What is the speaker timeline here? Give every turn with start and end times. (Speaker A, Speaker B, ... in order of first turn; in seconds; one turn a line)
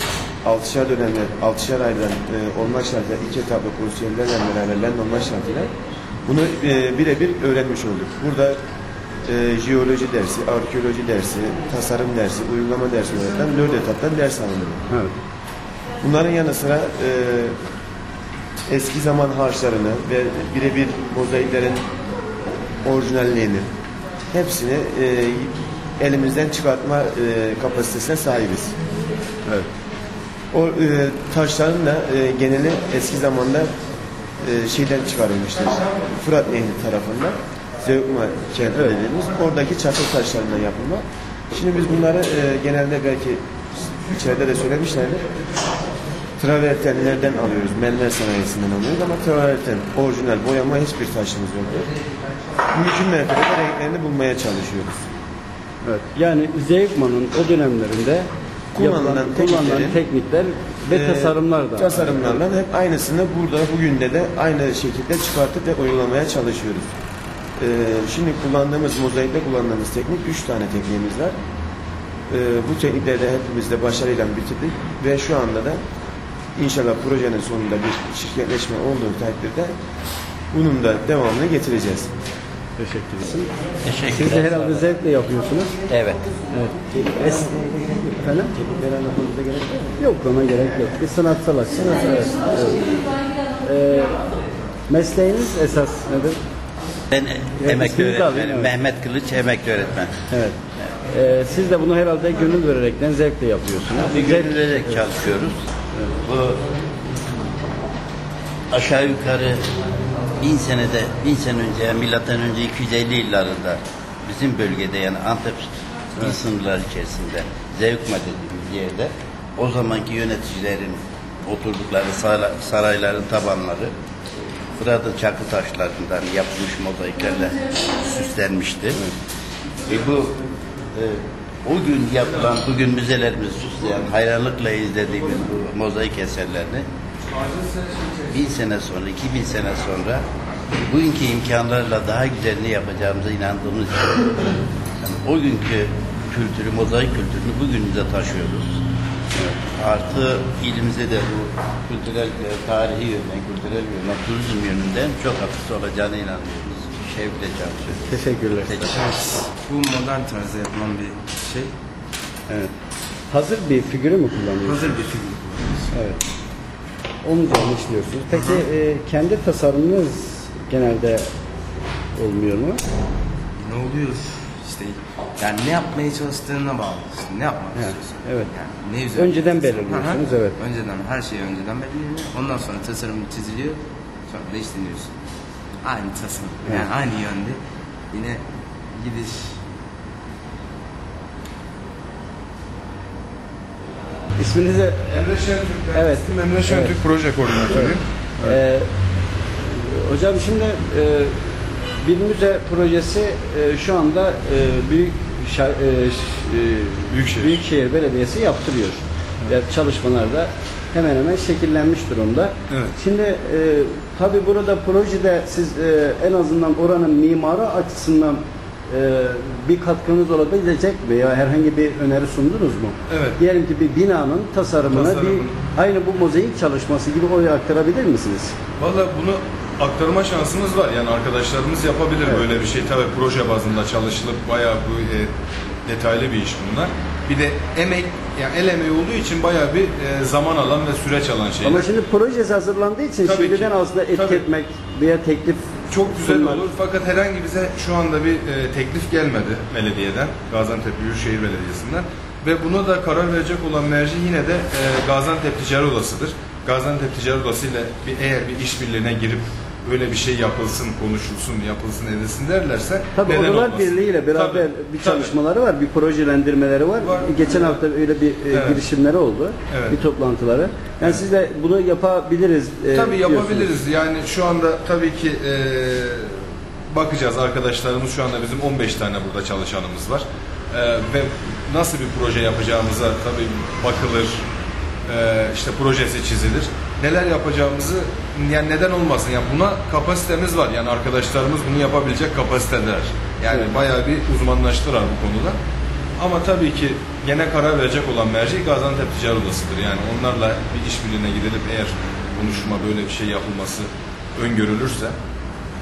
Speaker A: 0.4-5.7
Speaker A: 6.2-8.6
Speaker A: 9.2-14.9
Speaker B: 14.9-15.1
Speaker A: 16.0-17.6
Speaker A: 18.7-21.9
Speaker A: 22.8-23.7
Speaker A: 24.3-28.8
Speaker A: 30.5-33.7
Speaker A: 34.4-45.3
Speaker A: 46.4-51.9
Speaker A: 52.7-55.1
Speaker B: 55.8-62.4
Speaker A: 58.7-60.0
Speaker A: 60.9-66.9
Speaker A: 67.6-71.3
Speaker A: 72.3-75.8
Speaker A: 76.5-79.7
Speaker A: 80.5-82.1
Speaker B: 82.8-83.5
Speaker C: 83.8-84.9
Speaker B: 84.0-85.7
Speaker C: 85.9-86.2
Speaker B: 86.5-86.8
Speaker A: 86.9-90.0
Speaker B: 88.2-88.5
Speaker B: 90.0-93.1
Speaker B: 93.6-94.2
Speaker B: 94.9-96.4
Speaker C: 97.1-100.1
Speaker B: 97.6-98.7
Speaker B: 100.3-105.0
Speaker C: 103.9-105.7
Speaker C: 106.2-106.7
Speaker C: 108.7-109.7
Speaker C: 110.4-123.9
Speaker C: 124.8-129.0
Speaker C: 129.8-130.4
Speaker C: 130.9-136.8
Speaker C: 138.1-140.2
Speaker C: 140.8-148.8
Speaker C: 149.7-159.0
Speaker B: 158.1-158.9
Speaker D: 158.9-161.7
Speaker B: 162.5-162.7
Speaker B: 163.3-165.0
Speaker D: 164.6-165.9
Speaker B: 165.9-166.2
Speaker B: 167.2-171.3
Speaker D: 168.3-168.6
Speaker B: 172.1-172.8
Speaker D: 173.6-185.1
Speaker B: 177.7-178.5
Speaker B: 179.1-180.6
Speaker D: 185.8-187.6
Speaker D: 188.1-188.4
Speaker D: 188.9-189.6
Speaker B: 194.3-195.2
Speaker E: 195.1-198.6
Speaker B: 195.9-196.9
Speaker B: 197.7-198.9
Speaker B: 199.6-228.5
Speaker E: 207.1-207.6
Speaker E: 212.7-212.9
Speaker E: 223.1-223.4
Speaker E: 224.9-225.6
Speaker E: 228.8-235.3
Speaker E: 235.8-241.9
Speaker B: 241.6-246.7
Speaker E: 243.2-244.4
Speaker E: 245.9-265.4
Speaker B: 263.1-273.7
Speaker E: 267.0-267.8
Speaker E: 268.5-268.8
Speaker E: 269.7-270.0
Speaker E: 272.9-284.4
Speaker E: 285.1-295.6
Speaker E: 296.2-305.1